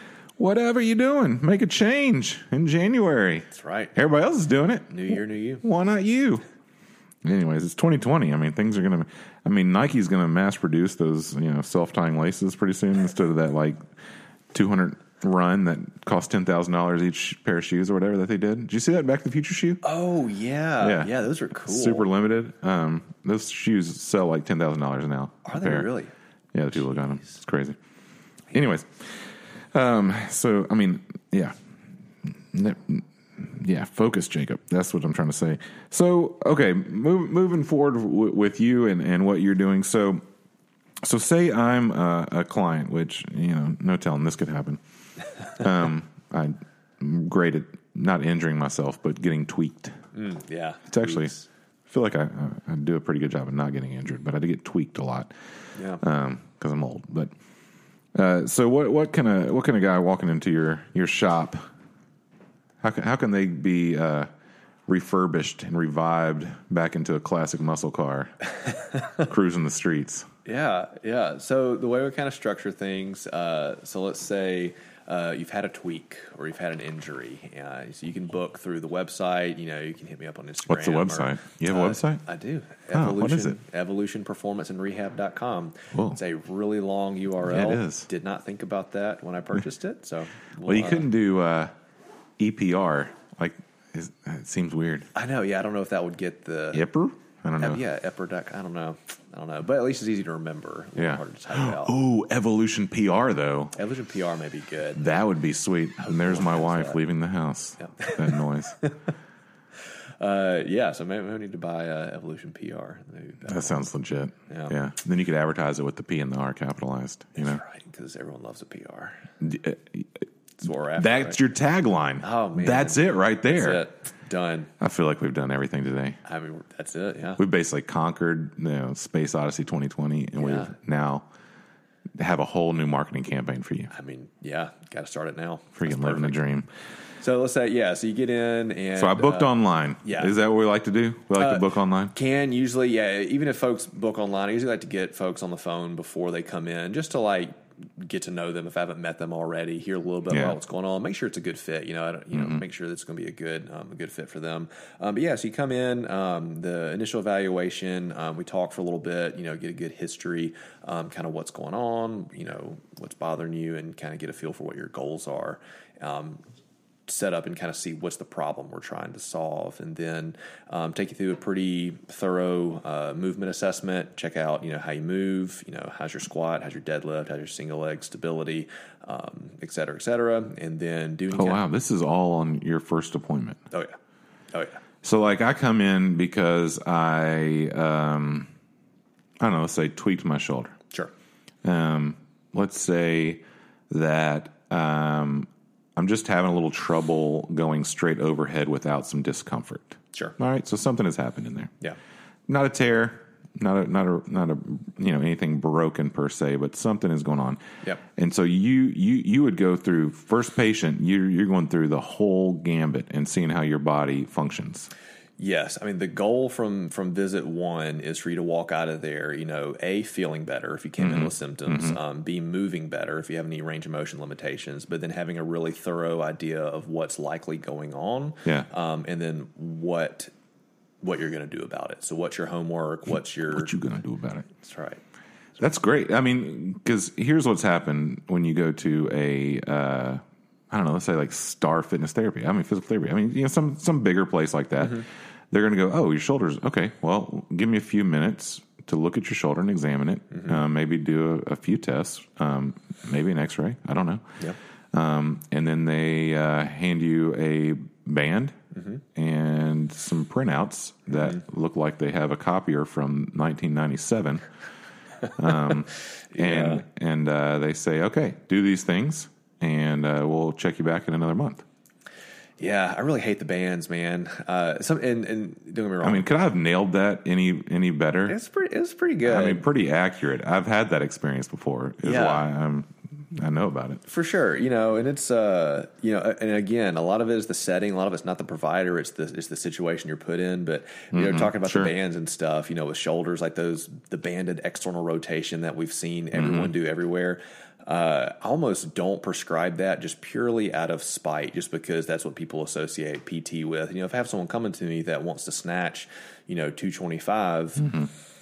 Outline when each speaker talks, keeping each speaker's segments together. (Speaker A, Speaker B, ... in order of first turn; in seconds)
Speaker A: 0.4-6.4, 7.2-13.8, 14.5-19.8, 20.8-25.9, 26.5-27.8, 28.5-31.6, 32.2-40.2, 41.0-44.8, 45.5-50.0, 50.9-51.3, 51.9-55.3, 56.0-57.3, 58.1-61.6, 62.8-64.3, 64.9-68.3, 69.2-70.3, 80.7-82.2, 82.9-83.6, 85.9-86.2, 87.4-88.1, 90.7-91.7, 92.4-95.1, 96.7-97.8, 101.0-103.8, 105.0-108.8, 113.5-117.6, 119.4-120.2, 121.0-123.8, 124.8-126.2, 127.4-131.2, 132.2-133.9, 135.8-136.7, 139.0-142.1, 150.3-150.6, 152.3-152.6, 181.3-183.6, 185.0-188.5, 189.4-190.8, 191.6-201.7, 202.5-207.6, 208.2-214.9, 221.0-222.0, 233.5-234.5, 235.6-254.3, 254.9-258.6, 259.1-264.4, 265.4-271.6, 276.0-278.4, 279.2-284.0, 291.1-291.9, 296.4-296.7, 307.8-308.1
Speaker B: 3.5-4.0, 4.9-5.6, 19.8-22.1, 25.5-26.1, 50.1-51.5, 55.8-56.0, 70.5-91.1, 95.2-96.9, 97.6-101.9, 103.8-105.1, 106.0-107.0, 107.8-109.0, 110.2-113.8, 114.5-114.7, 117.4-119.2, 120.6-121.4, 122.2-124.7, 126.2-127.4, 130.4-130.7, 133.9-136.4, 137.2-140.4, 141.4-166.4, 167.1-181.6, 184.5-184.8, 215.4-230.3, 231.0-233.7, 234.6-235.0, 250.3-250.6, 258.7-259.0, 261.1-261.4, 266.3-266.8, 272.6-276.3, 278.3-279.7, 282.0-282.5, 284.1-307.9